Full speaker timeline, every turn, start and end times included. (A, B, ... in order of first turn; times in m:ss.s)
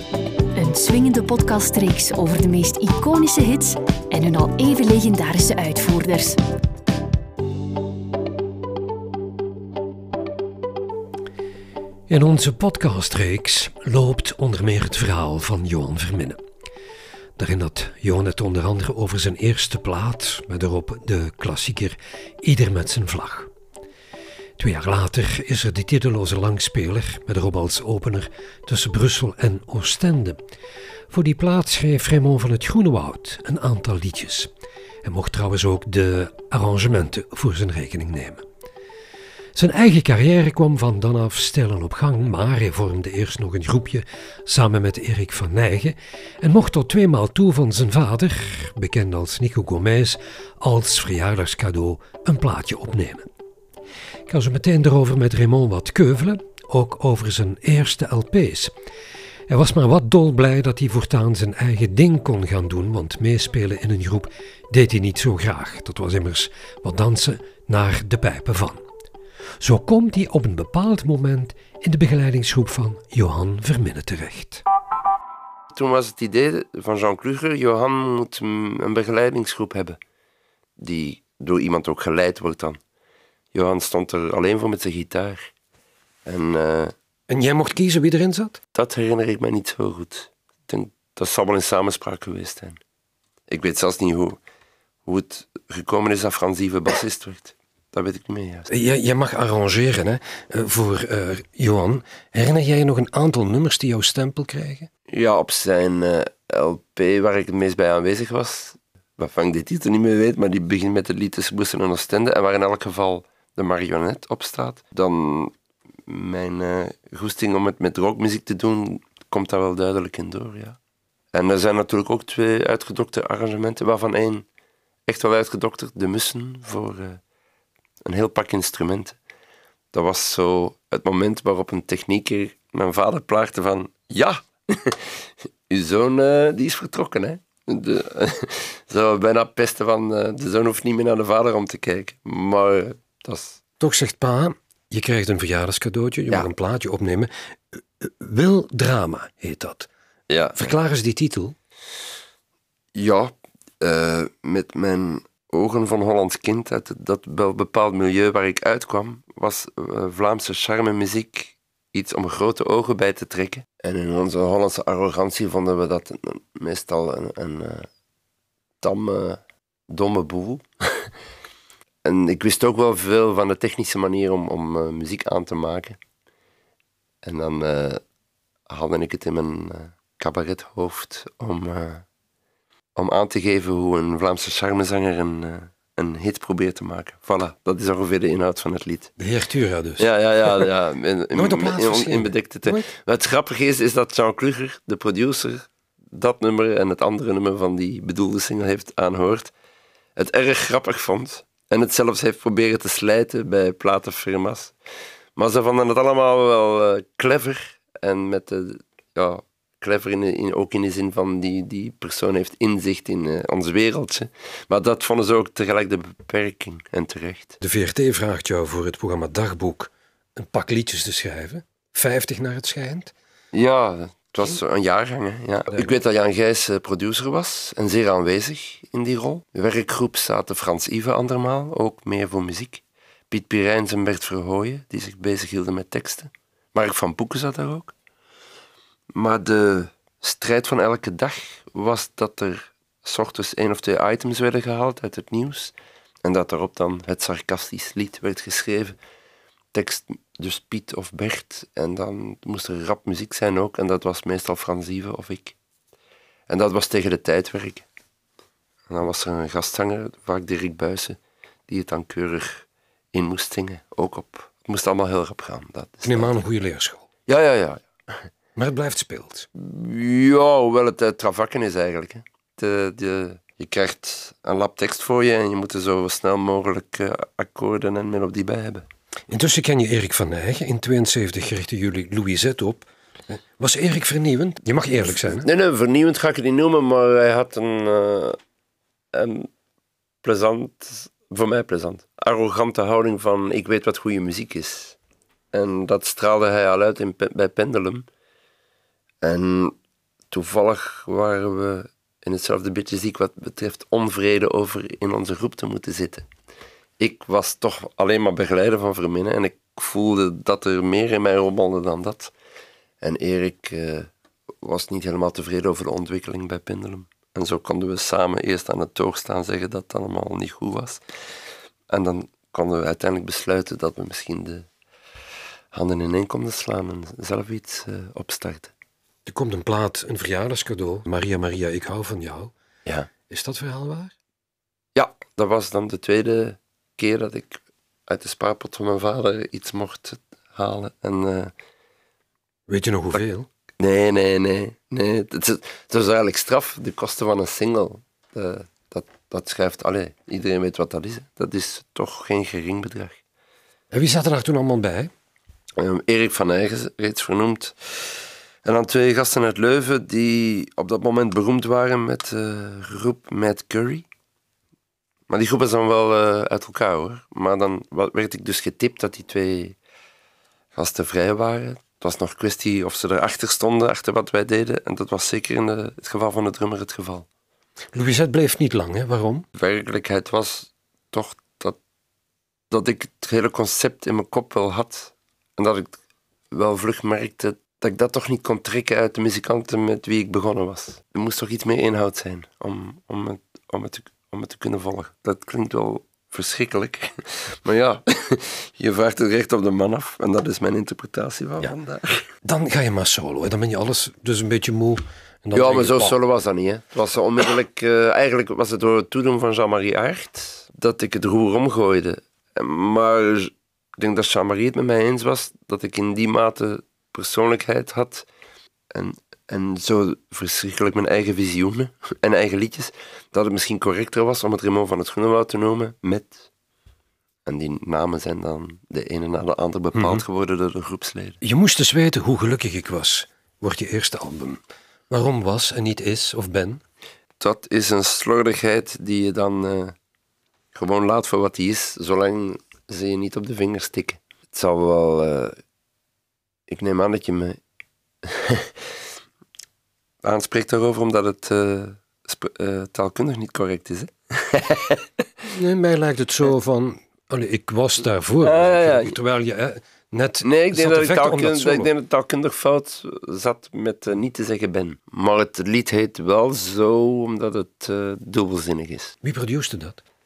0:00.5-0:06.4 A
0:12.1-0:16.4 B
0:17.4-0:23.5 B
0:24.6-0:30.4 B
0:31.1-0:34.5 B
0:35.0-0:38.4 B
0:39.5-0:53.3 B
0:54.3-0:58.7 B
0:59.5-1:08.8 B
1:09.6-1:14.6 B
1:15.7-1:20.0 C
1:20.8-1:22.8 C
1:23.5-1:25.5 C
1:26.2-1:26.9 C
1:27.3-1:28.6 B
1:28.7-1:32.8 C
1:33.5-1:34.4 C
1:35.0-1:38.7 C
1:38.7-1:44.9 B
1:45.1-1:55.5 C
1:56.0-2:00.8 C
2:01.3-2:04.4 C
2:05.1-2:07.2 C
2:08.0-2:09.2 C
2:09.9-2:23.6 C
2:23.8-2:29.9 B
2:30.3-2:30.6 C
2:30.5-2:31.6 B
2:32.9-2:47.9 C
2:48.8-2:51.1 C
2:52.0-2:56.0 C
2:57.2-2:58.0 C
2:58.7-3:02.0 C
3:02.9-3:09.1 C
3:09.2-3:10.7 B
3:10.0-3:19.5 C
3:11.3-3:12.9 B
3:20.2-3:24.7 C
3:25.4-3:37.6 C
3:37.6-3:43.1 B
3:43.5-3:57.9 C
3:59.1-4:09.0 C
4:09.7-4:15.6 C
4:16.5-4:17.8 C
4:18.9-4:26.4 C
4:26.0-4:27.0 B
4:27.3-4:27.9 C
4:28.6-4:29.4 B
4:29.5-4:38.8 C
4:39.3-4:45.4 B
4:45.3-4:48.4 C
4:49.1-4:49.5 C
4:50.2-4:55.0 C
4:55.5-4:58.1 C
4:59.2-4:59.7 C
5:00.3-5:06.3 C
5:07.0-5:12.3 C
5:13.0-5:14.1 C
5:14.6-5:21.0 C
5:21.9-5:24.7 C
5:25.7-5:28.7 C
5:29.2-5:32.5 B
5:32.8-5:33.1 C
5:33.3-5:34.1 B
5:34.9-5:41.5 C
5:42.7-5:43.5 B
5:43.8-5:53.2 C
5:53.9-5:55.1 B
5:55.8-5:58.1 C
5:58.6-6:04.0 C
6:05.3-6:09.8 C
6:10.7-6:17.2 C
6:17.9-6:19.4 B
6:19.5-6:21.8 C
6:22.7-6:26.0 C
6:26.5-6:42.3 C
6:42.4-6:46.1 B
6:45.5-6:58.3 C
6:58.9-7:06.5 C
7:07.4-7:11.4 C
7:09.9-7:10.2 B
7:11.4-7:16.8 B
7:17.4-7:19.9 C
7:20.7-7:25.5 C
7:26.7-7:27.6 C
7:28.2-7:28.7 C
7:30.2-7:35.0 C
7:35.5-7:41.9 B
7:38.4-7:39.2 C
7:40.4-7:49.1 C
7:49.2-7:50.0 B